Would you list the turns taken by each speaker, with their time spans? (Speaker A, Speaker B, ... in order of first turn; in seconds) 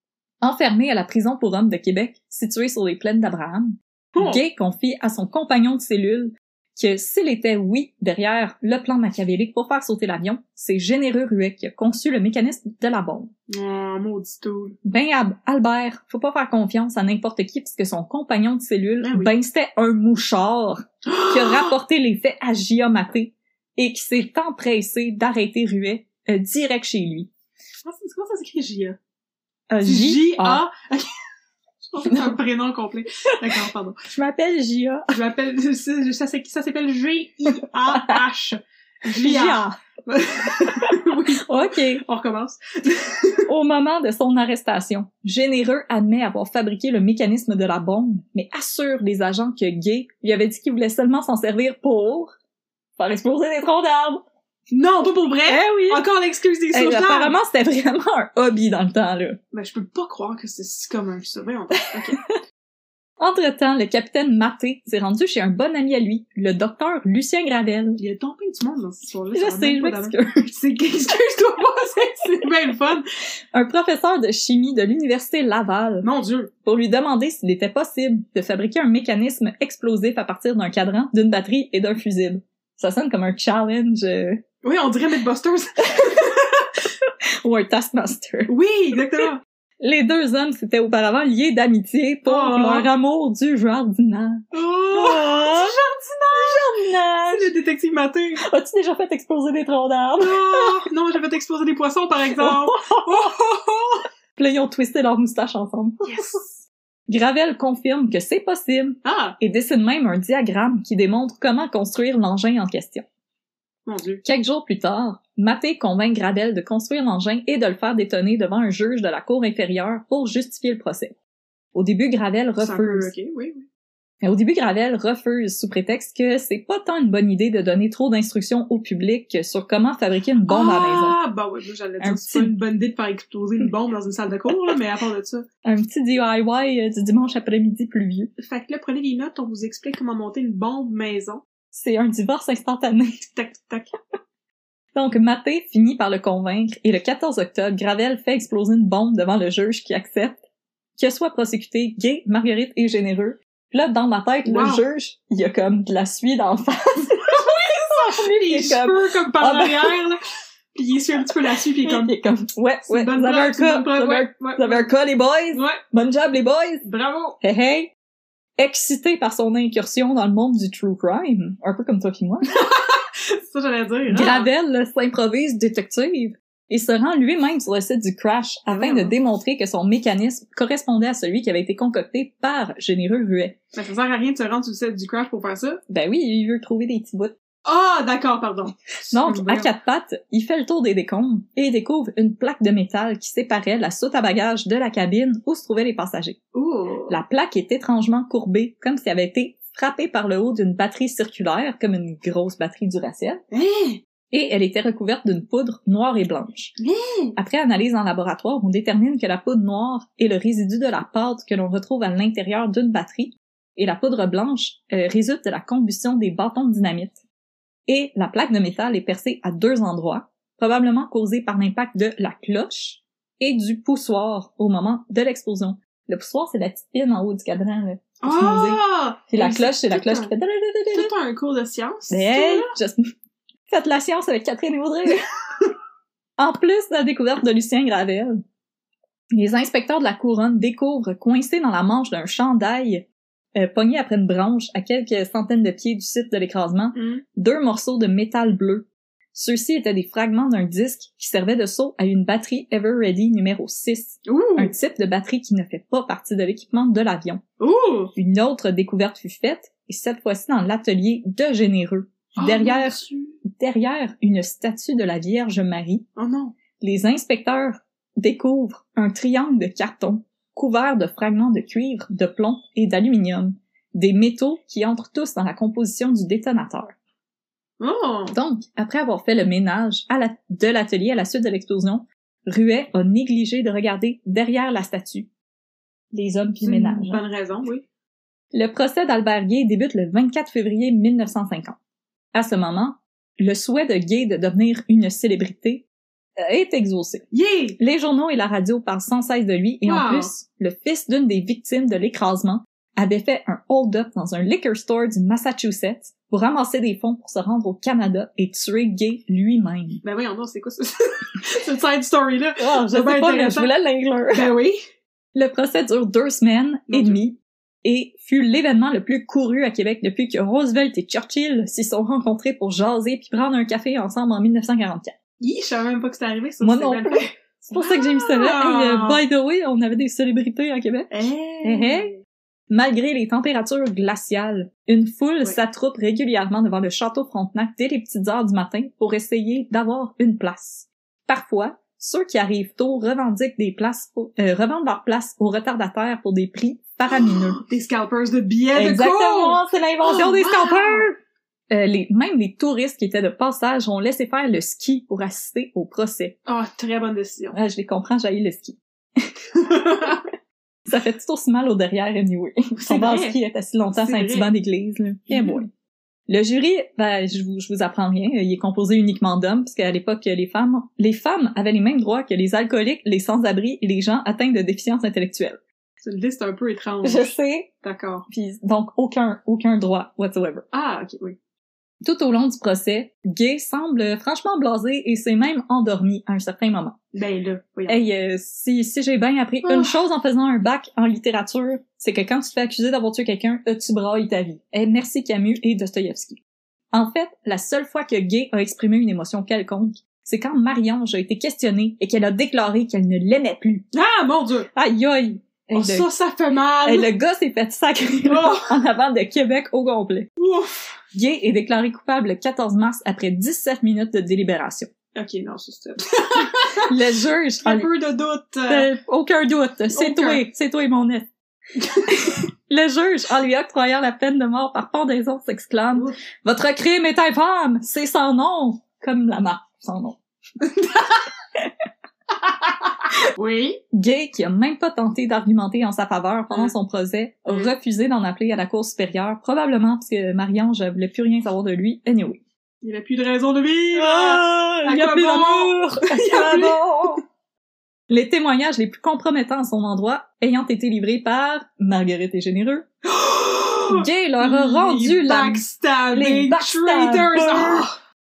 Speaker A: 0.4-13.3, 14.8-27.3, 29.7-30.6, 32.0-32.4, 33.4-35.1, 37.9-38.2, 39.1-39.8, 40.4-42.0, 43.5-52.3, 53.0-54.2, 55.5-56.0, 56.7-59.4, 62.0-62.4, 63.2-68.0, 69.3-70.5, 73.5-76.1, 76.6-84.4, 87.0-89.2, 89.8-95.8, 96.3-97.5, 98.4-100.8, 102.3-103.3, 104.4-106.4, 107.1-113.0, 114.2-121.2, 121.7-123.1, 124.2-131.2, 132.0-132.6, 135.6-138.3, 141.7-143.2, 144.9-150.4, 151.0-160.0, 161.8-166.8, 167.4-167.9, 168.6-172.7, 174.1-183.6, 185.9-187.3, 189.1-196.4, 197.1-203.4, 204.3-206.7, 207.3-217.2, 217.9-231.1, 232.1-233.1, 233.7-235.3, 236.4-238.4, 239.3-257.4, 258.1-266.1, 266.8-276.9, 278.3-285.3, 286.1-287.2, 288.5-291.8, 292.3-295.8, 296.4-297.2, 297.8-310.0, 312.6-314.4, 315.3-325.1, 326.6-332.1, 332.7-347.6, 348.7-351.1, 351.7-356.4, 357.5-359.3, 360.9-365.7, 366.3-375.6, 377.0-377.7, 378.3-380.6, 382.0-387.0, 387.9-396.4, 396.9-403.9, 404.7-406.1, 406.8-410.3, 411.1-414.9, 416.8-417.9, 418.7-421.3, 422.1-430.2, 433.9-442.4, 443.9-447.2, 448.1-452.9, 453.9-457.9
Speaker B: 4.1-4.4, 13.5-14.8, 19.0-19.3, 21.1-21.7, 27.8-29.0, 29.8-31.1, 31.8-34.0, 35.1-43.5, 54.7-57.3, 59.5-62.2, 68.0-73.0, 76.0-76.5, 84.6-86.7, 88.5-89.4, 92.2-92.9, 94.5-96.7, 97.3-98.5, 100.2-104.0, 106.0-106.5, 109.0-109.4, 113.8-114.2, 122.6-123.7, 130.5-135.5, 138.4-141.4, 143.3-143.9, 154.4-154.8, 157.3-160.2, 160.7-162.1, 162.9-164.9, 165.5-165.8, 166.8-167.4, 172.5-174.5, 178.7-179.1, 183.7-185.8, 187.6-189.7, 196.5-197.2, 203.5-204.0, 206.8-207.3, 228.2-230.3, 230.9-232.7, 246.9-247.2, 254.2-254.7, 257.6-258.1, 262.4-263.4, 266.1-266.6, 277.8-278.3, 286.6-287.8, 297.3-297.8, 299.8-300.3, 310.0-313.7, 314.3-314.8, 316.9-317.2, 325.4-329.2, 331.1-332.2, 347.2-351.1, 356.4-357.6, 359.6-360.2, 362.8-363.4, 363.9-364.5, 365.3-365.7, 376.0-377.3, 377.8-378.3, 380.7-381.4, 387.1-388.0, 389.6-390.0, 403.9-404.7, 405.7-407.1, 408.3-408.8, 410.4-411.0, 415.1-416.9, 417.6-418.9, 419.9-420.4, 421.8-422.2, 430.7-431.2, 433.4-433.8, 442.8-447.1, 453.1-458.0